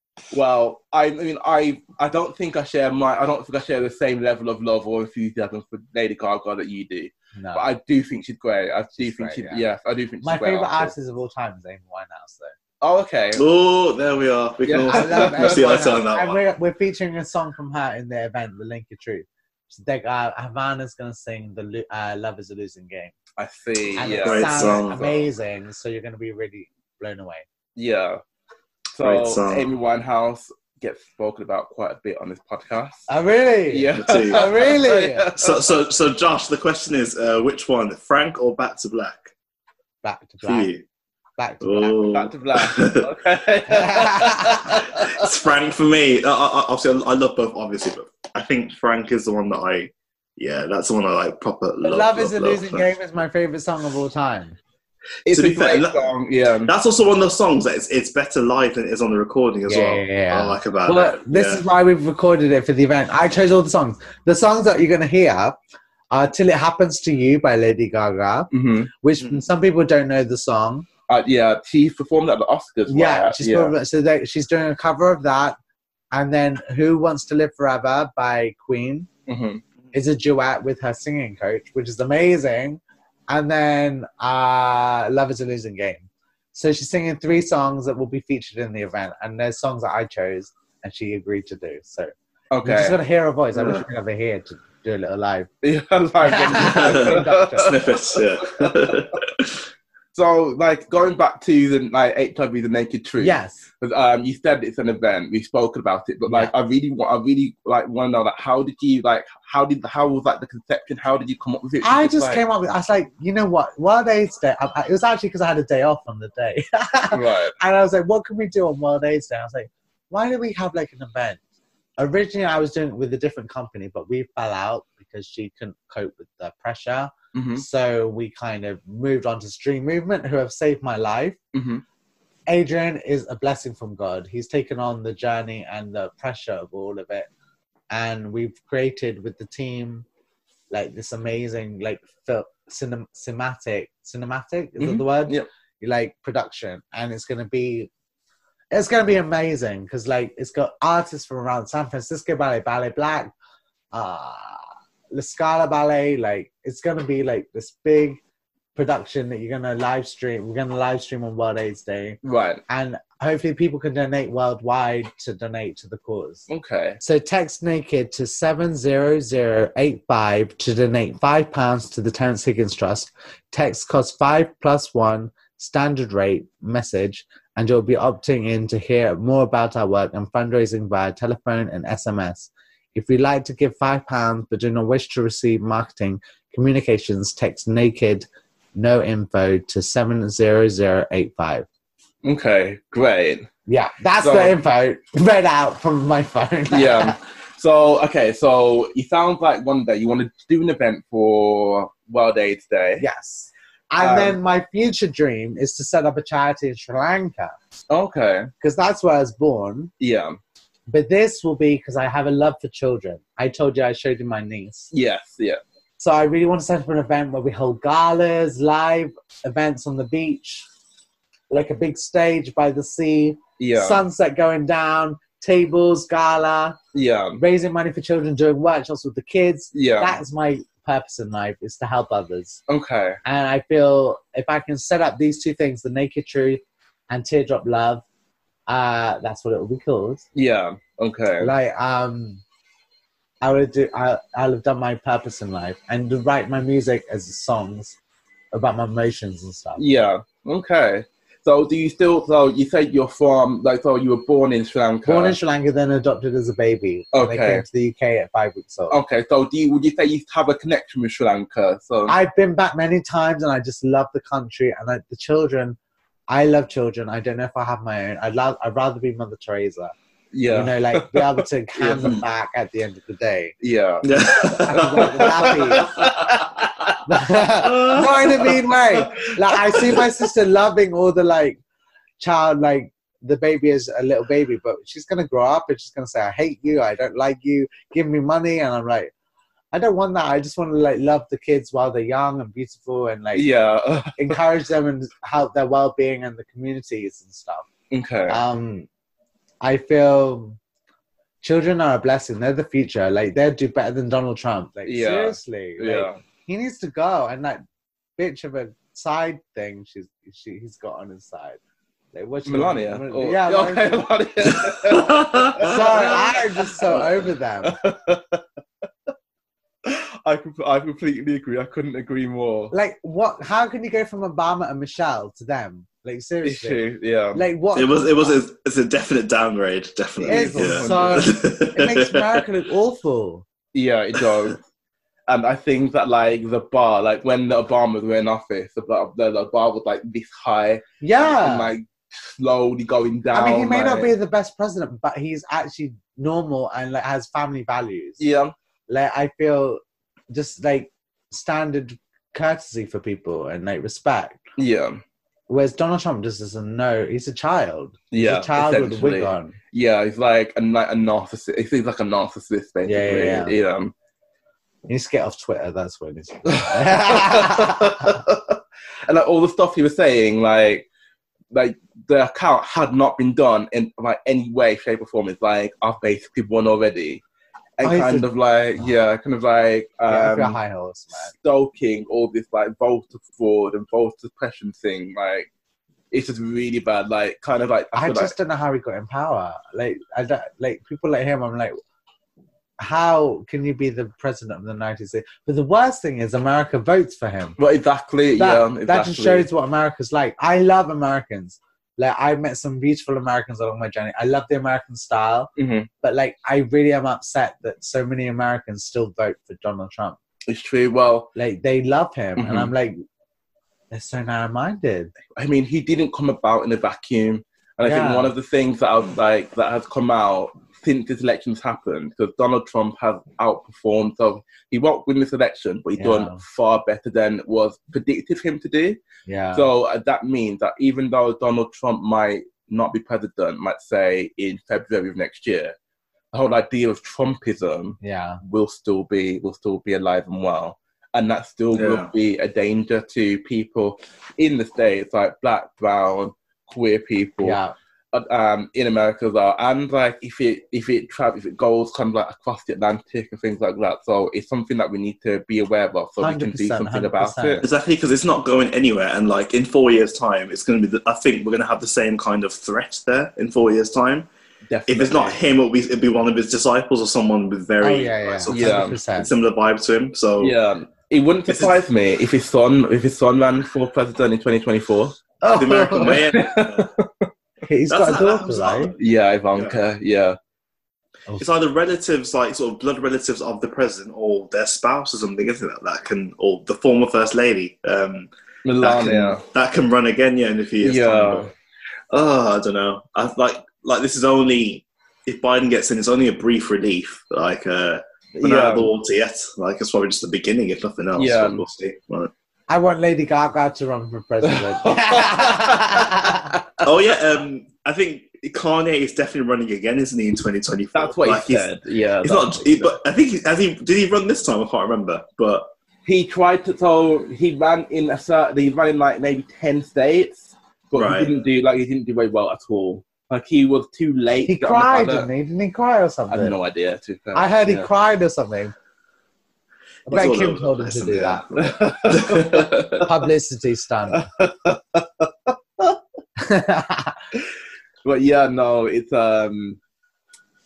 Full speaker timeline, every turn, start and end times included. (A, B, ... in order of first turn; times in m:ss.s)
0:00.3-0:10.9 A
0:07.3-0:07.6 B
0:08.9-0:09.6 B
0:10.2-0:12.5 B
0:12.8-0:13.4 A
0:13.3-0:16.4 C
0:14.6-0:15.7 A
0:14.9-0:23.1 B
0:23.4-0:25.2 A
0:24.0-0:27.4 B
0:24.0-0:25.1 C
0:27.8-0:28.2 A
0:28.9-0:33.0 A
0:29.0-0:29.7 C
0:33.1-0:35.3 B
0:33.7-0:35.6 A
0:33.9-0:34.7 C
0:35.4-0:39.3 C
0:40.0-0:40.7 B
0:40.4-0:40.8 C
0:41.4-0:42.1 B
0:41.6-0:43.1 C
0:42.1-0:45.3 A
0:43.7-0:44.8 B
0:44.7-0:52.8 C
0:51.8-0:54.6 B
0:55.2-0:56.7 A
0:55.3-0:56.1 C
0:56.6-1:01.6 C
0:59.6-1:05.6 B
1:06.1-1:10.9 B
1:08.5-1:08.9 A
1:11.1-1:13.7 A
1:12.9-1:15.6 B
1:16.1-1:19.1 B
1:19.3-1:19.6 A
1:19.9-1:32.1 B
1:32.5-1:33.0 A
1:32.6-1:35.5 B
1:35.6-1:39.0 A
1:36.2-1:37.9 B
1:36.6-1:39.6 C
1:40.1-1:52.4 A
1:43.2-1:43.6 B
1:46.3-1:46.5 B
1:51.8-2:01.4 B
1:57.1-1:57.5 A
2:02.0-2:11.4 B
2:07.3-2:07.6 A
2:11.5-2:11.8 A
2:12.5-2:17.3 B
2:17.9-2:20.0 B
2:20.7-2:27.9 B
2:24.8-2:25.5 A
2:28.7-2:33.3 B
2:33.9-2:38.2 B
2:38.7-2:46.5 B
2:42.2-2:42.6 A
2:46.5-2:47.0 A
2:47.0-3:11.6 B
3:12.2-3:13.5 A
3:13.7-3:17.2 B
3:14.2-3:14.6 A
3:16.7-3:23.0 A
3:23.0-3:27.6 B
3:24.0-3:24.4 A
3:27.9-3:28.5 A
3:28.6-3:29.9 B
3:30.0-3:30.4 A
3:30.9-3:34.9 B
3:34.9-3:35.6 A
3:36.0-3:40.7 B
3:41.5-3:46.8 B
3:43.6-3:44.0 A
3:46.9-3:47.4 A
3:47.4-3:52.6 B
3:49.7-3:50.2 A
3:52.7-3:53.2 A
3:53.2-3:58.0 B
3:58.7-4:00.2 B
4:00.3-4:01.5 A
4:01.4-4:02.4 B
4:03.4-4:08.0 B
4:08.5-4:09.8 B
4:09.8-4:15.4 A
4:15.0-4:19.0 B
4:17.1-4:17.6 A
4:18.9-4:22.2 A
4:22.1-4:25.8 B
4:26.3-4:29.9 B
4:30.3-4:32.2 A
4:30.5-4:33.5 B
4:33.6-4:37.0 A
4:34.0-4:36.5 C
4:34.4-4:36.1 B
4:37.0-4:41.6 B
4:37.6-4:38.6 C
4:42.2-4:49.1 B
4:49.7-4:53.5 B
4:53.3-4:54.4 A
4:54.2-4:57.7 B
4:57.9-4:58.4 A
4:58.3-4:58.9 B
4:59.6-5:00.6 B
5:01.4-5:07.6 B
5:04.8-5:06.2 A
5:08.2-5:11.6 B
5:12.1-5:14.1 B
5:12.4-5:18.4 A
5:14.9-5:15.7 C
5:15.6-5:17.8 B
5:19.8-5:22.7 A
5:22.7-5:26.8 B
5:26.4-5:27.4 A
5:27.3-5:28.4 B
5:27.7-5:32.4 C
5:30.2-5:33.4 B
5:30.2-5:31.3 A
5:33.7-5:34.6 A
5:34.2-5:34.5 C
5:35.3-5:44.1 A
5:41.0-5:41.7 B
5:43.3-5:48.2 B
5:48.2-5:48.5 A
5:48.9-5:54.4 B
5:54.6-5:55.0 A
5:55.5-5:59.6 B
5:58.1-6:03.9 A
6:02.8-6:03.5 B
6:04.9-6:08.2 B
6:06.5-6:10.9 A
6:11.5-6:17.2 A
6:17.8-6:20.6 A
6:17.8-6:18.3 B
6:20.1-6:21.3 B
6:21.3-6:25.5 A
6:26.1-6:28.3 A
6:27.9-6:31.8 B
6:32.8-6:37.6 B
6:37.6-6:39.5 A
6:38.4-6:45.5 B
6:45.6-6:45.9 A
6:46.0-6:50.2 B
6:50.5-6:51.3 A
6:51.3-6:53.0 B
6:52.4-6:52.7 A
6:53.9-6:55.1 B
6:55.3-7:09.0 A
6:57.8-6:58.3 B
7:06.0-7:06.4 B
7:09.2-7:09.6 B
7:09.5-7:15.7 A
7:16.3-7:27.6 A
7:18.0-7:18.4 B
7:21.7-7:22.1 C
7:27.4-7:27.8 B
7:28.1-7:37.6 A
7:36.2-7:37.6 B
7:37.6-7:44.3 C
7:44.7-7:45.4 A
7:44.9-7:50.5 C
7:47.8-7:49.3 B
7:48.5-7:49.0 A
7:50.4-7:55.2 A
7:51.5-7:51.8 C
7:55.4-7:56.5 B
7:55.5-7:56.9 C
7:55.9-7:57.3 A
7:57.6-7:58.9 B
7:57.9-7:59.0 C
7:59.0-8:00.4 A
8:01.4-8:08.3 C
8:08.6-8:09.4 A
8:08.8-8:11.5 C
8:10.8-8:11.5 A
8:12.1-8:22.3 C
8:18.4-8:18.9 A
8:21.2-8:21.6 A
8:22.7-8:26.5 B
8:24.5-8:26.6 A
8:26.8-8:31.7 C
8:30.9-8:32.9 A
8:32.2-8:35.7 C
8:36.0-8:45.3 A
8:40.9-8:41.4 C
8:44.4-8:46.5 B
8:46.3-8:47.9 A
8:47.3-8:48.7 B
8:50.1-8:51.5 B
8:50.1-8:52.9 C
8:51.6-8:53.1 A
8:53.0-8:54.3 B
8:54.1-8:56.0 A
8:56.4-8:57.2 B
8:58.0-8:59.8 A